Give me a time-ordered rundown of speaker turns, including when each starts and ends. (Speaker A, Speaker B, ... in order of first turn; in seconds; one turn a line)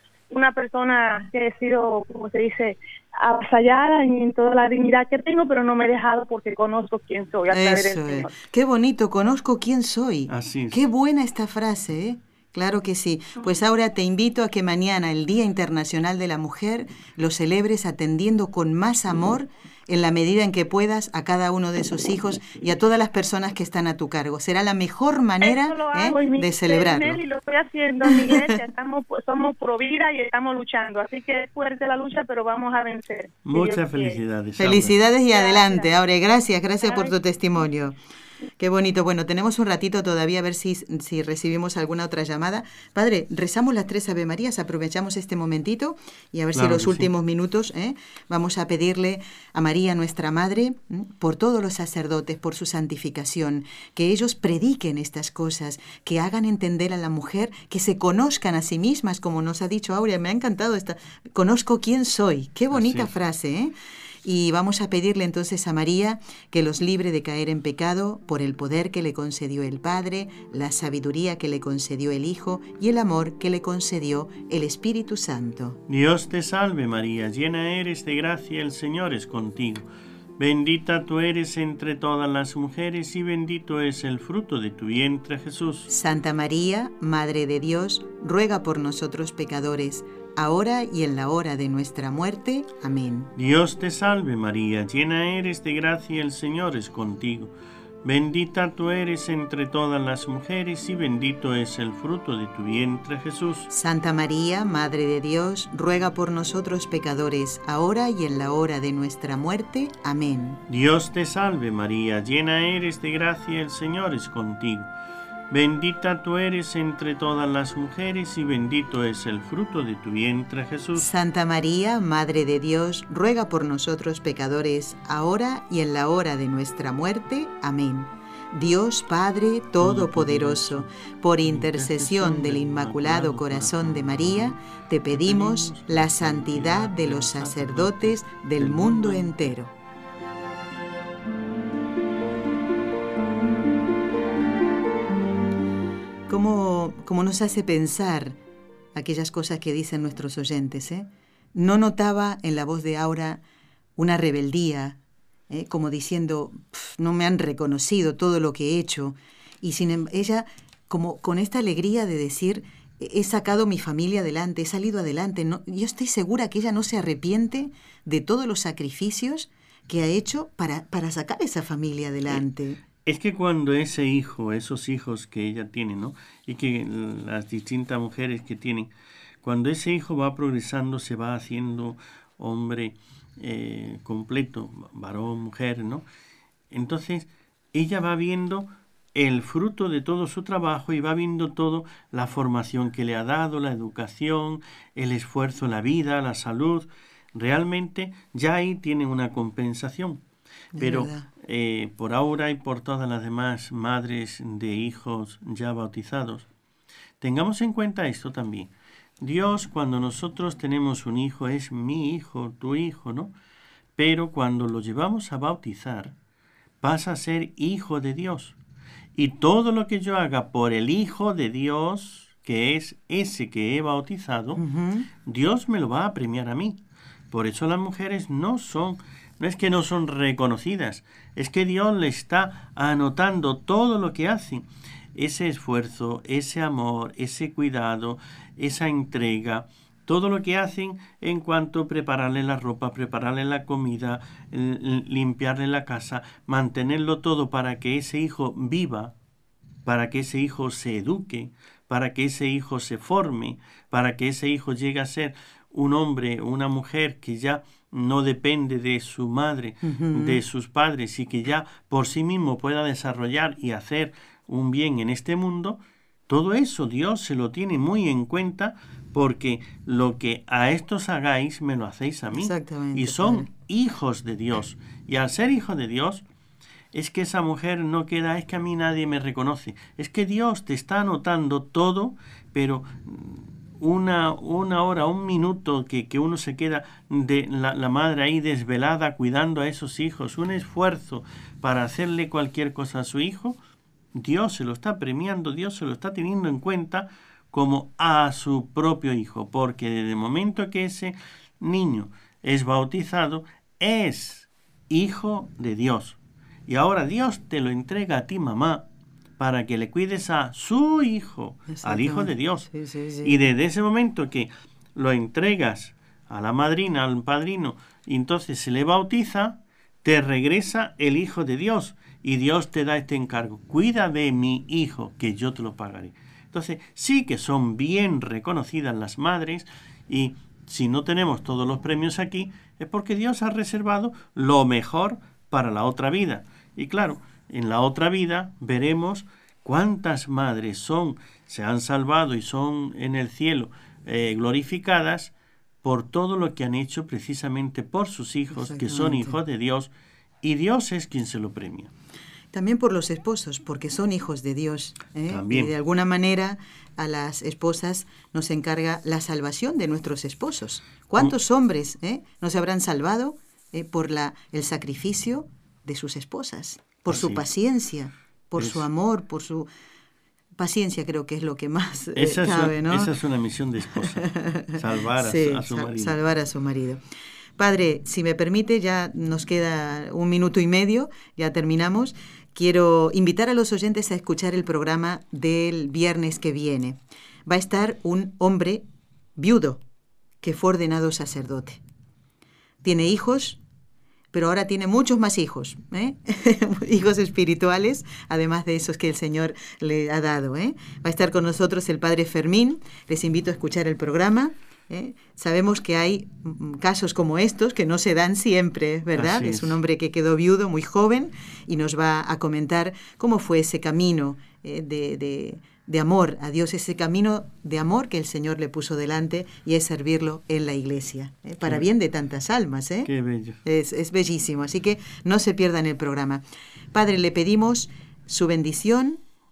Speaker A: 0.3-8.3
Speaker B: 7.5-27.2
Speaker C: 10.3-10.8
Speaker A: 25.4-34.2
Speaker B: 28.1-28.6
Speaker C: 33.5-35.0
Speaker B: 34.6-38.0
Speaker A: 35.3-35.9
Speaker A: 36.8-37.1
Speaker B: 38.6-75.8
Speaker C: 46.5-47.1
Speaker C: 62.7-63.1
Speaker C: 75.9-85.9
Speaker B: 85.9-93.3
Speaker C: 93.4-103.7
Speaker B: 103.7-110.6
Speaker C: 110.7-114.9
Speaker C: 115.5-121.1
Speaker B: 121.0-139.7
Speaker C: 129.8-130.9
Speaker C: 131.4-134.6
Speaker C: 135.1-139.3
Speaker B: 146.3-148.4
Speaker B: 148.9-153.4
Speaker B: 154.0-155.0
Speaker B: 155.5-172.8
Speaker C: 173.1-178.9
Speaker C: 179.4-186.1
Speaker C: 186.7-200.2
Speaker B: 200.8-201.3
Speaker C: 200.8-206.5
Speaker C: 207.2-213.3
Speaker C: 214.0-216.2
Speaker C: 216.8-218.6
Speaker C: 219.2-224.6
Speaker B: 224.6-225.1
Speaker C: 225.2-226.8
Speaker C: 227.3-249.1
Speaker C: 249.8-276.2
Speaker B: 259.8-260.4
Speaker B: 272.3-273.5
Speaker C: 276.9-293.6
Speaker C: 294.1-308.9
Speaker C: 309.4-312.7
Speaker B: 311.7-313.4
Speaker C: 313.2-349.9
Speaker B: 348.5-349.4
Speaker C: 350.4-351.9
Speaker B: 352.5-369.7
Speaker C: 355.3-355.7
Speaker C: 367.1-367.4
Speaker C: 368.6-368.8
Speaker B: 370.6-373.1
Speaker C: 372.2-376.2
Speaker B: 374.0-377.0
Speaker B: 377.6-388.9
Speaker B: 389.4-389.8
Speaker B: 390.4-391.8
Speaker B: 392.8-393.6
Speaker B: 394.3-423.1
Speaker C: 409.1-409.8
Speaker C: 423.1-423.6
Speaker B: 423.6-429.2